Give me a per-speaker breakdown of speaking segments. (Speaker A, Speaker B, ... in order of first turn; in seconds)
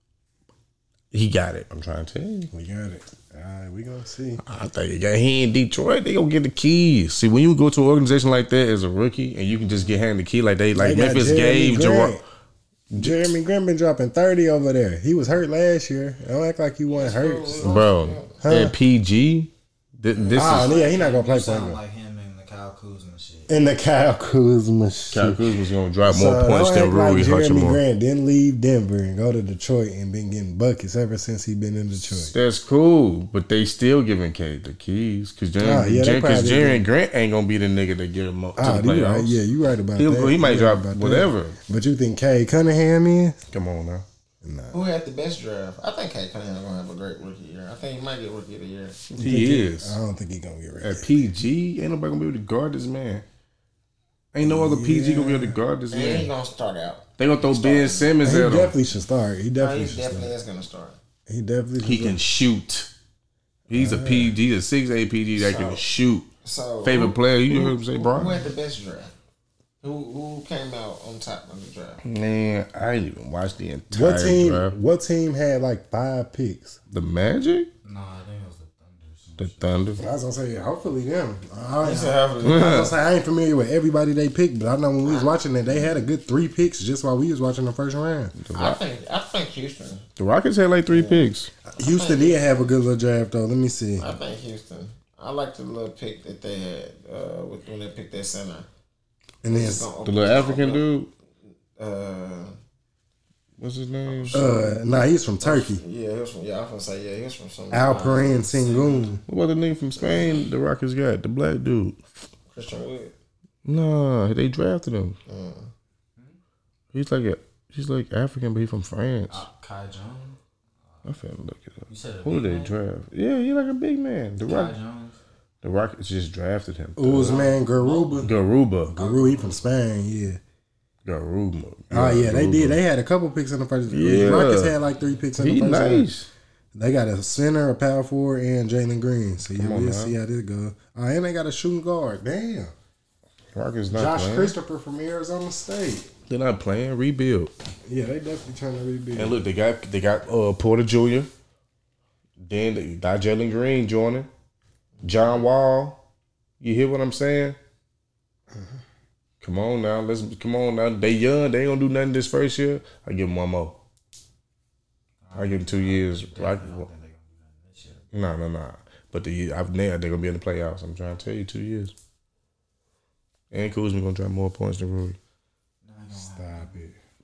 Speaker A: 1.1-2.5, 4.4-12.2, 12.9-13.3, 17.6-20.7, 25.1-27.8, 32.1-39.4, 40.0-41.6, 43.5-44.0, 49.1-50.0, 50.8-53.2, 54.3-56.3, 57.2-58.7, 61.8-62.9, 63.7-66.3, 66.8-68.5, 72.0-74.8, 76.9-77.7, 79.4-80.0, 82.4-82.9, 88.3-88.8, 90.2-91.5, 100.0-101.1, 103.6-104.7, 109.3-112.0, 113.6-115.2, 116.9-119.4, 121.0-124.7, 125.6-127.4, 128.2-129.0, 131.0-132.8, 133.9-134.7, 135.4-136.3, 139.5-140.1, 143.5-144.5, 146.3-147.5, 149.1-151.3, 152.4-154.3, 155.0-156.0, 156.6-157.6, 159.4-163.8, 165.3-166.9, 168.1-171.9, 173.5-175.2
Speaker B: 2.5-4.4, 10.7-12.2, 12.9-17.8, 18.4-18.7, 20.3-21.8, 23.5-25.5, 26.0-32.3, 35.6-36.9, 38.5-43.4, 44.4-44.9, 49.1-51.3, 54.4-55.6, 58.2-60.3, 61.3-62.2, 63.7-64.4, 73.9-76.8, 80.0-88.3, 91.7-94.2, 99.4-99.9, 104.3-105.8, 107.7-109.2, 127.0-128.3, 128.9-130.4, 131.9-136.1, 136.7-142.7, 143.9-146.1, 147.8-149.4, 158.5-158.8, 176.2-177.0
Speaker C: 16.9-18.4, 20.1-20.5, 44.7-49.0, 55.9-58.2, 59.6-61.0, 65.3-65.8, 66.4-69.1, 69.8-72.0, 81.8-82.8, 85.0-86.0, 88.5-90.0, 90.9-92.7, 94.0-98.7, 99.4-100.8, 101.8-102.5, 104.0-104.7, 105.4-109.0, 110.0-110.4, 112.5-113.1, 115.3-115.7, 155.0-155.4
Speaker D: 20.5-23.5, 77.8-79.8, 107.9-108.7, 119.3-121.2, 121.9-122.8, 124.4-125.2, 127.3-128.3, 129.0-129.7, 134.8-135.2, 165.2-168.1, 175.8-176.8